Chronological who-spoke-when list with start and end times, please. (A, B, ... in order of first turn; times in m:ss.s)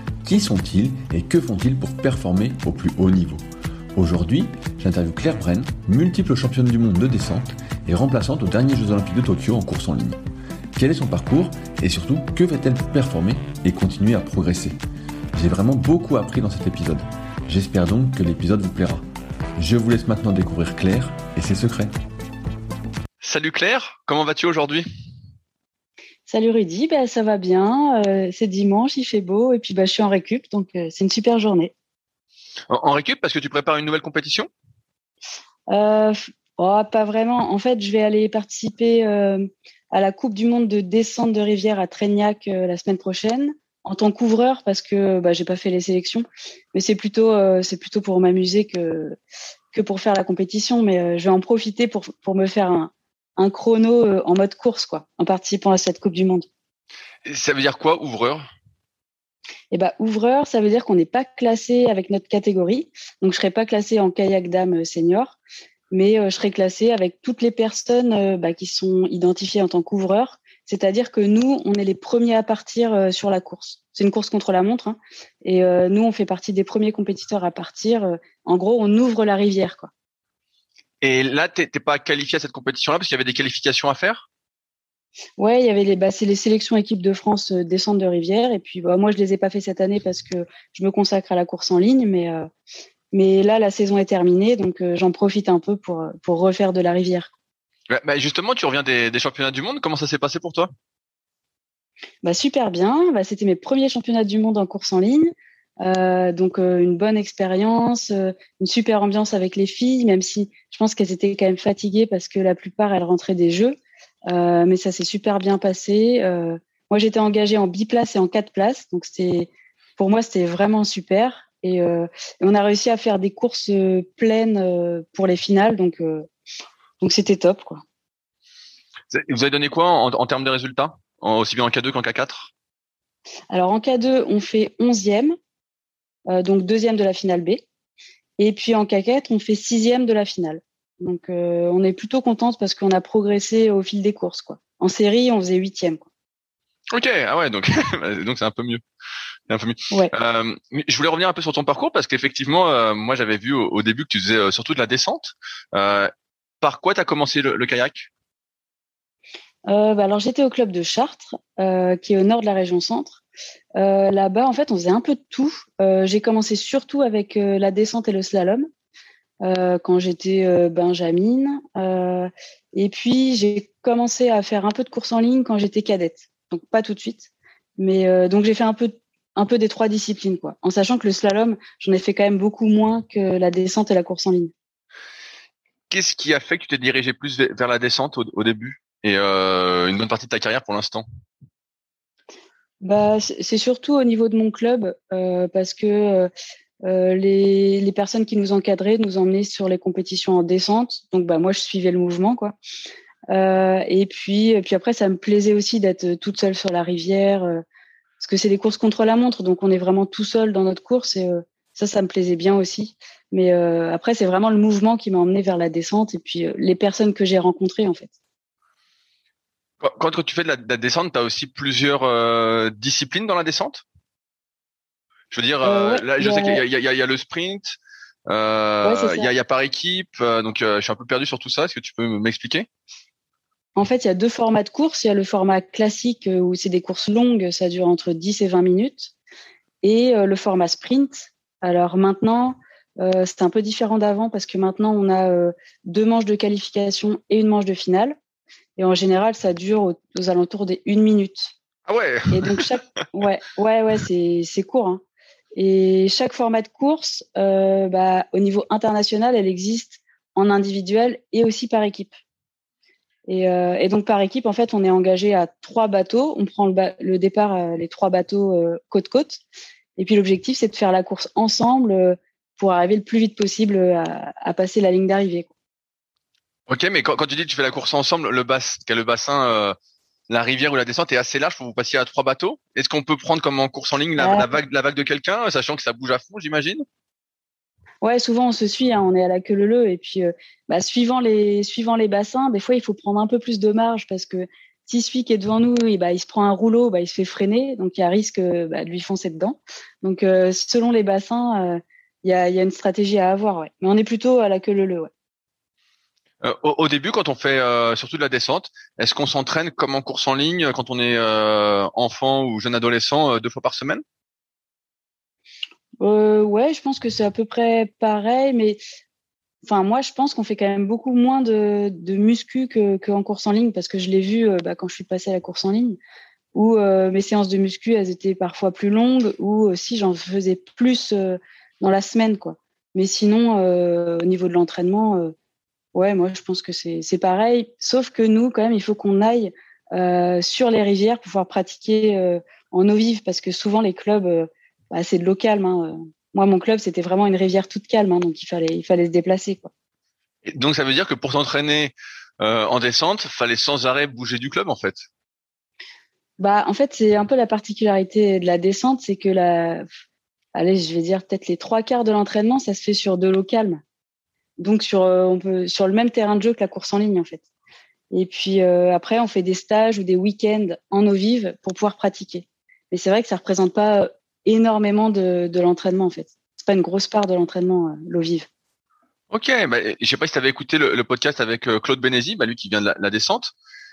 0:00.3-0:03.4 A
0:04.0-0:10.2 A
0:06.4-0:06.7 B
0:10.8-0:14.7 A
0:15.4-0:19.0 A
0:19.6-0:21.9 A
0:23.2-0:24.9 B
0:26.3-0:31.7 C
0:32.7-0:34.5 B
0:35.7-0:49.2 C
0:49.7-0:56.5 C
0:57.2-0:58.5 B
0:59.7-1:05.4 C
1:05.9-1:19.9 C
1:21.0-1:24.3 B
1:25.4-1:32.5 C
1:33.1-1:37.3 C
1:37.9-1:40.7 B
1:42.2-2:06.3 C
2:07.0-2:07.8 C
2:09.1-2:12.5 B
2:13.5-2:15.4 C
2:16.3-2:17.6 C
2:18.4-2:26.1 C
2:26.9-2:28.8 B
2:29.5-2:38.1 B
2:39.7-2:43.2 C
2:43.8-2:48.7 C
2:49.4-3:04.5 C
3:05.9-3:11.0 B
3:12.8-3:16.3 C
3:16.8-3:22.6 C
3:23.3-3:27.6 C
3:28.2-3:38.1 C
3:39.8-3:43.8 B
3:45.3-3:47.8 B
3:45.6-3:46.6 C
3:48.3-3:52.7 B
3:48.8-3:49.3 C
3:53.8-3:59.1 C
3:59.8-4:08.2 C
4:08.8-4:11.5 C
4:11.9-4:12.7 B
4:12.3-4:15.0 C
4:15.6-4:22.1 C
4:23.3-4:29.4 C
4:30.0-4:35.5 C
4:36.7-4:39.8 B
4:40.3-4:46.8 B
4:44.2-4:44.5 C
4:48.0-5:05.1 C
5:06.4-5:14.0 B
5:16.0-5:18.8 C
5:19.6-5:26.0 C
5:26.5-5:35.4 C
5:35.9-5:49.7 C
5:50.4-5:55.1 B
5:56.4-5:59.9 C
6:00.6-6:03.8 C
6:04.6-6:07.4 C
6:08.1-6:18.5 C
6:19.3-6:23.5 B